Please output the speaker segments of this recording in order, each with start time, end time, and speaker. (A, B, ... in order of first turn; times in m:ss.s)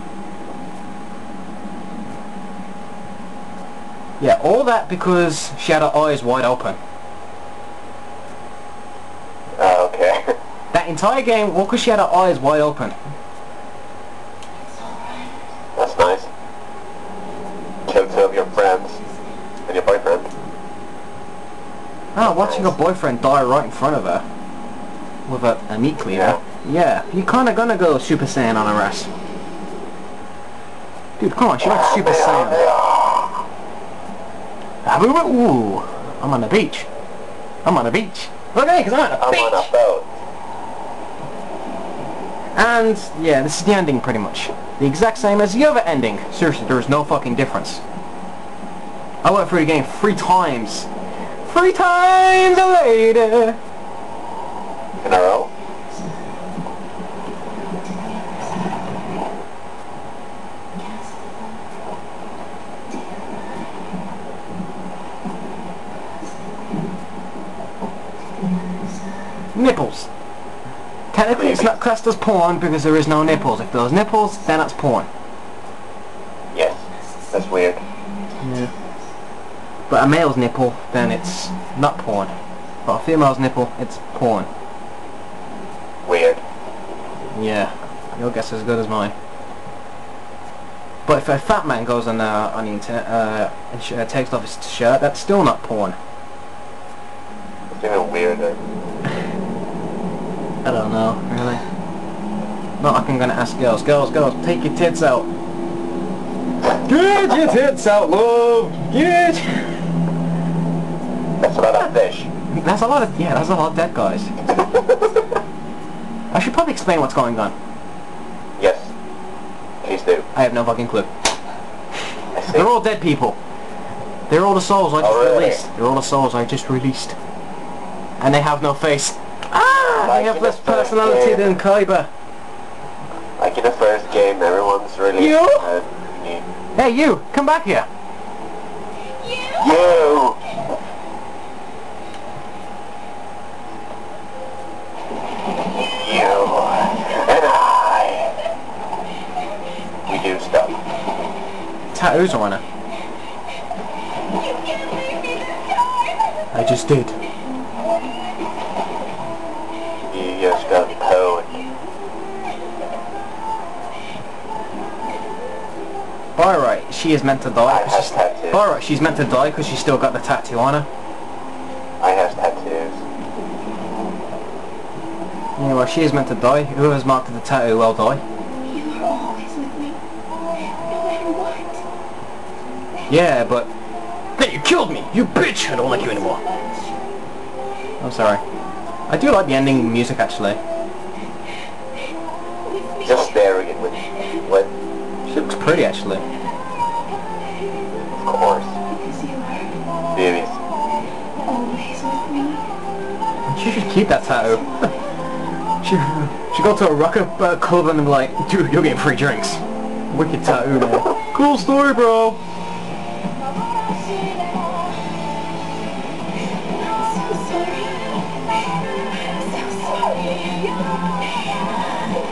0:04.2-0:06.8 A
0:09.6-0:10.4 B
0:10.7-0:13.0 A
0:14.7-0:15.4 C
0:15.8-0:16.3 B
0:17.8-0:19.0 B
0:19.7-0:20.3 B
0:22.1-0:24.2 A
0:22.2-0:22.8 B
0:25.3-0:29.1 A
0:26.1-0:26.4 B
0:31.2-0:32.6 A
0:31.6-0:33.4 B
0:34.8-0:36.9 A
0:37.6-0:39.7 A
0:39.2-0:40.1 B
0:42.6-0:47.8 A
0:49.2-0:50.9 A
0:51.4-0:53.6 A
0:55.0-0:55.5 B
0:57.8-0:58.7 C
1:00.8-1:01.6 C
1:08.5-1:08.9 C
1:09.5-1:10.1 A
1:11.1-1:15.1 A
1:11.3-1:11.8 B
1:16.5-1:17.8 B
1:18.4-1:18.7 A
1:19.9-1:22.3 A
1:22.8-1:24.5 A
1:26.0-1:26.4 B
1:27.3-1:29.1 A
1:31.0-1:36.0 A
1:37.7-1:38.6 B
1:40.6-1:41.6 A
1:42.8-1:45.3 A
1:46.8-1:49.8 A
1:51.4-1:52.3 B
1:52.5-1:54.3 A
1:54.6-1:55.2 B
1:56.3-1:57.5 A
1:58.6-1:58.9 B
1:59.8-2:00.3 B
2:00.3-2:01.1 A
2:02.3-2:02.7 B
2:02.5-2:03.4 A
2:04.3-2:07.2 A
2:05.0-2:05.6 B
2:08.2-2:12.1 A
2:10.0-2:11.6 B
2:13.4-2:16.4 B
2:15.2-2:15.7 A
2:16.8-2:17.9 A
2:19.6-2:20.4 B
2:25.8-2:28.4 B
2:30.1-2:30.8 B
2:31.9-2:32.6 A
2:36.5-2:37.2 A
2:40.1-2:41.6 B
2:46.4-2:50.9 A
2:47.6-2:48.6 B
2:52.0-2:53.0 B
2:55.6-2:58.2 A
2:58.7-3:00.0 C
3:00.8-3:01.8 C
3:03.1-3:03.7 A
3:04.4-3:06.4 A
3:08.0-3:08.4 A
3:09.1-3:10.6 A
3:13.0-3:14.7 B
3:15.3-3:16.2 A
3:18.2-3:18.8 B
3:18.9-3:19.8 C
3:20.1-3:20.6 B
3:21.4-3:22.6 C
3:23.5-3:24.9 A
3:25.8-3:32.4 A
3:36.7-3:38.2 C
3:39.2-3:41.5 C